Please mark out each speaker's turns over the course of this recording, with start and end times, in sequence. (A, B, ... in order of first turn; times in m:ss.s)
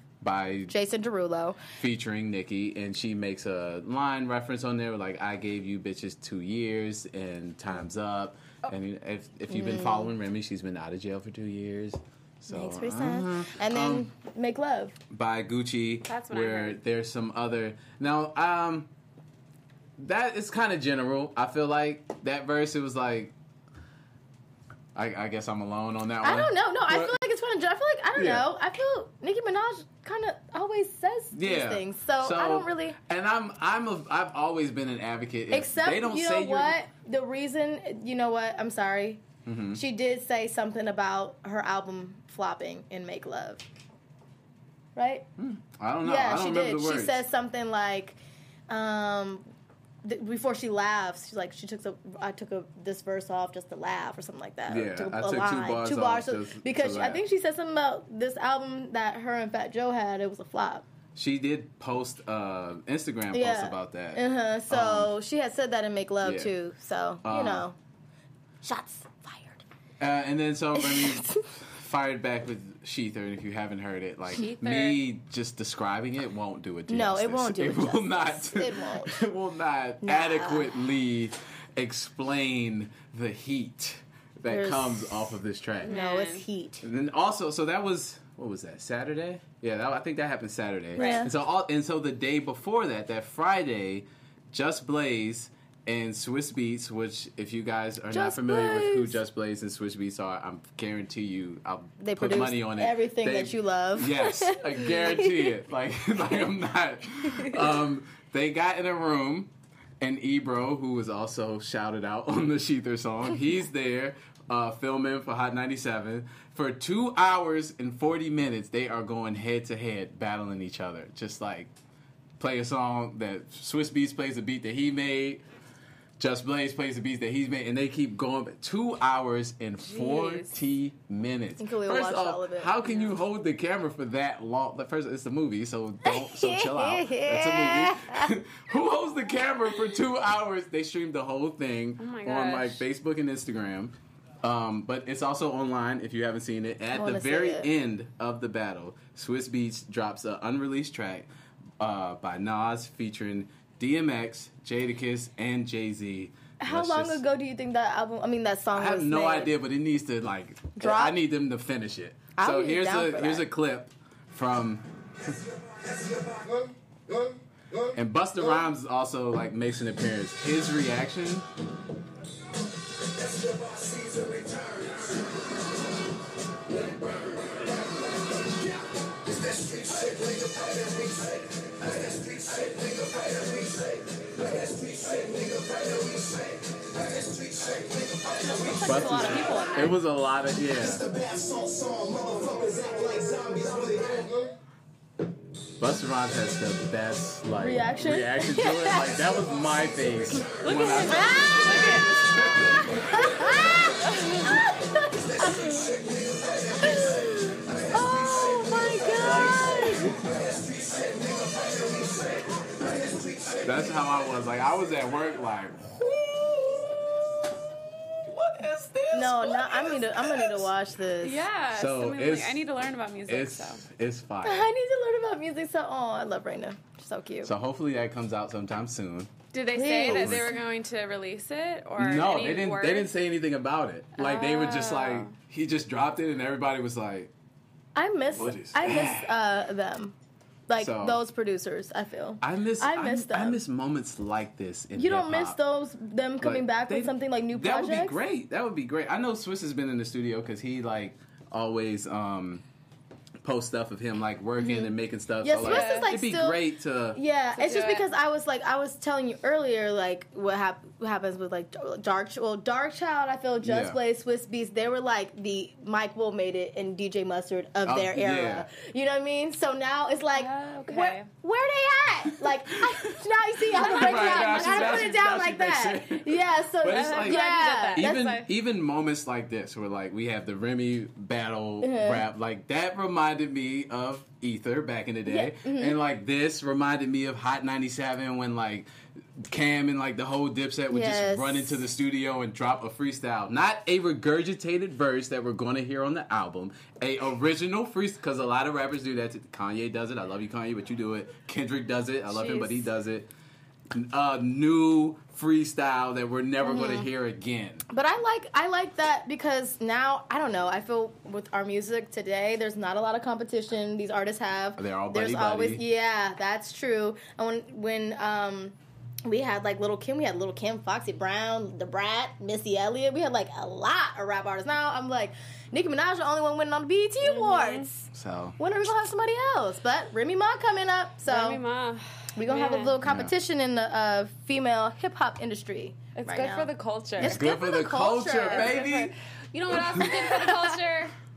0:00.2-0:00.8 A
0:00.7-0:01.6 B
0:01.8-0:14.1 A
0:09.5-0:10.1 B
0:12.5-0:15.0 B
0:15.1-0:18.9 A
0:16.0-0:16.8 C
0:20.0-0:23.3 A
0:25.0-0:27.2 A
0:26.2-0:33.0 B
0:28.2-0:28.5 A
0:31.3-0:36.8 A
0:35.5-0:43.6 B
0:39.5-0:39.8 A
0:45.0-0:45.3 B
0:45.4-0:47.2 A
0:46.0-0:48.2 B
0:48.7-0:49.4 B
0:50.0-1:00.8 B
0:54.7-0:57.2 A
1:01.2-1:05.1 A
1:03.3-1:07.8 B
1:06.2-1:06.5 A
1:07.2-1:07.7 A
1:08.6-1:09.6 B
1:10.0-1:25.9 A
1:10.8-1:11.4 B
1:14.4-1:15.0 C
1:16.9-1:19.2 B
1:20.0-1:20.8 B
1:24.5-1:26.9 B
1:25.8-1:26.4 C
1:26.8-2:01.7 A
1:31.0-1:31.3 C
1:31.0-1:31.3 B
1:38.1-1:39.2 B
1:42.0-1:45.5 B
1:47.4-1:47.7 B
2:02.4-2:05.4 A
2:06.2-2:31.3 A
2:09.8-2:10.6 C
2:11.6-2:12.8 B
2:12.8-2:13.1 C
2:16.0-2:18.4 B
2:22.0-2:22.8 C
2:26.9-2:27.7 B
2:31.8-2:37.2 A
2:36.6-2:39.5 B
2:38.8-2:45.4 A
2:40.8-2:41.2 B
2:42.4-2:43.5 B
2:47.9-2:51.5 A
3:08.3-3:10.0 C
3:08.8-3:11.6 A
3:12.5-3:14.4 A
3:15.8-3:23.2 A
3:17.6-3:19.2 B
3:20.6-3:22.6 C
3:21.1-3:26.0 B
3:23.4-3:24.7 C
3:26.8-3:30.2 B
3:29.1-3:30.2 A
3:33.6-3:36.9 A
3:38.3-3:40.7 A
3:39.1-3:41.4 B
3:41.2-3:43.8 C
3:41.7-3:42.6 A
3:43.3-3:44.7 A
3:44.4-3:47.5 B
3:47.4-3:49.3 A
3:49.5-3:53.1 C
3:49.8-3:50.6 B
3:50.1-3:50.6 A
3:52.0-3:57.3 A
3:54.2-3:55.3 C
3:58.0-4:00.2 B
3:58.3-3:59.3 A
4:00.7-4:03.6 B
4:00.8-4:01.2 A
4:02.4-4:05.6 A
4:05.0-4:08.2 B
4:06.4-4:12.6 A
4:13.4-4:17.2 A
4:14.6-4:14.9 B
4:15.4-4:16.6 B
4:15.6-4:16.1 C
4:17.1-4:38.4 B
4:17.6-4:18.1 C
4:23.6-4:24.0 A
4:27.8-4:28.7 A
4:30.3-4:31.3 C
4:32.5-5:03.3 A
4:33.7-4:35.2 C
4:36.9-4:38.5 C
4:41.8-4:42.2 B
4:45.3-4:46.0 B
4:50.9-4:51.8 B
5:02.3-5:02.9 B
5:03.9-5:07.8 A
5:06.6-5:07.1 B
5:07.9-5:31.6 B
5:14.8-5:15.8 A
5:27.2-5:27.9 C
5:28.1-5:28.6 A
5:31.3-5:33.0 C
5:32.4-5:38.8 B
5:33.0-5:33.3 A
5:36.2-5:37.4 C
5:37.2-5:39.2 A
5:38.5-5:41.1 C
5:39.7-5:40.2 A
5:40.0-5:40.8 B